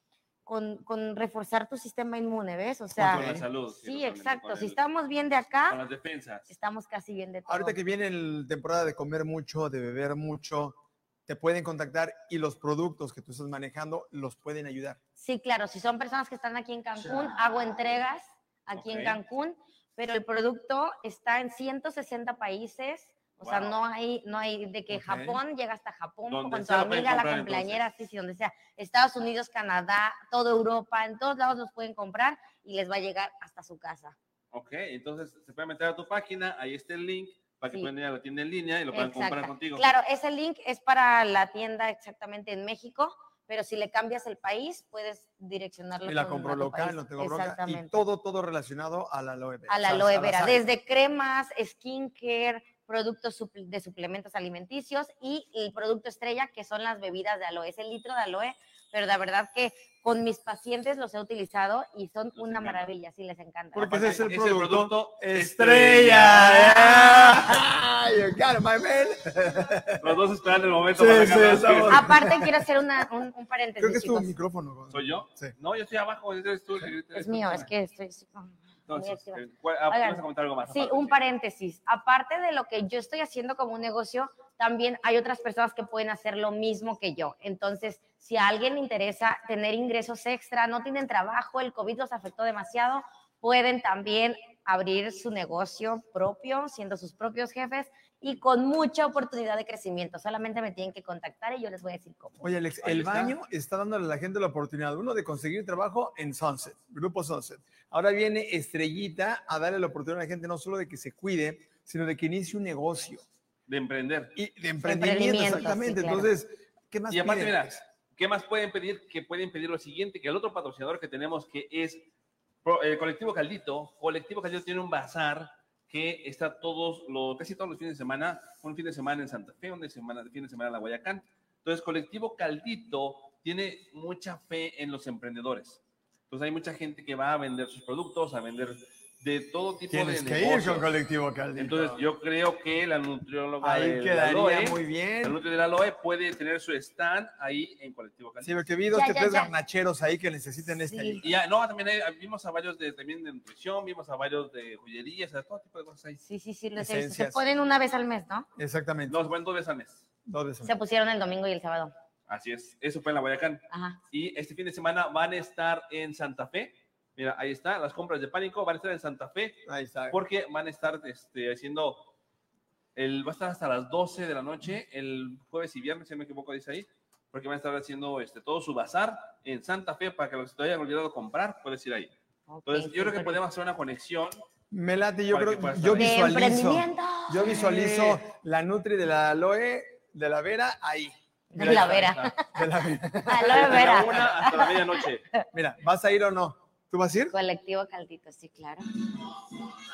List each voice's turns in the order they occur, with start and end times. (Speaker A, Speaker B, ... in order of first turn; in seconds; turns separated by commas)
Speaker A: 0.5-5.8, Speaker B: 3.0-3.5, Speaker C: 3.0-4.8, Speaker C: 5.7-6.5, Speaker A: 6.5-7.8, Speaker B: 7.5-15.0, Speaker A: 15.2-34.2, Speaker C: 18.8-19.2, Speaker C: 23.4-23.8, Speaker B: 24.9-25.4, Speaker C: 26.3-27.8, Speaker C: 34.5-39.9, Speaker A: 38.9-48.0, Speaker B: 46.0-50.6, Speaker A: 49.7-64.2, Speaker C: 62.4-62.8, Speaker B: 63.7-70.2, Speaker C: 63.9-67.6, Speaker C: 70.0-72.1, Speaker B: 71.0-72.6, Speaker A: 71.9-74.3, Speaker B: 73.8-75.5, Speaker C: 74.9-77.7, Speaker A: 77.1-102.4, Speaker C: 78.9-81.2, Speaker B: 102.4-113.2, Speaker C: 102.8-103.3, Speaker C: 113.7-114.3, Speaker B: 114.3-117.7, Speaker A: 114.8-116.3, Speaker C: 117.1-122.0, Speaker C: 122.7-140.9, Speaker B: 139.9-142.0, Speaker C: 141.6-148.5, Speaker B: 143.6-145.4, Speaker B: 148.4-151.3, Speaker A: 148.9-149.5, Speaker A: 150.8-151.2, Speaker C: 151.2-156.2, Speaker A: 156.2-158.5, Speaker B: 156.8-157.4, Speaker B: 158.6-159.2, Speaker C: 159.1-160.1, Speaker B: 160.3-160.7, Speaker A: 160.6-161.9, Speaker C: 162.3-172.1, Speaker A: 163.7-164.0, Speaker B: 169.7-170.2, Speaker C: 173.0-182.1, Speaker A: 182.5-183.4, Speaker C: 182.7-184.4, Speaker B: 184.7-194.2, Speaker C: 185.3-186.3, Speaker A: 186.0-188.2, Speaker A: 191.5-192.5, Speaker C: 191.6-192.3, Speaker A: 193.2-194.9, Speaker C: 193.4-195.2, Speaker B: 195.5-197.3, Speaker A: 197.3-198.9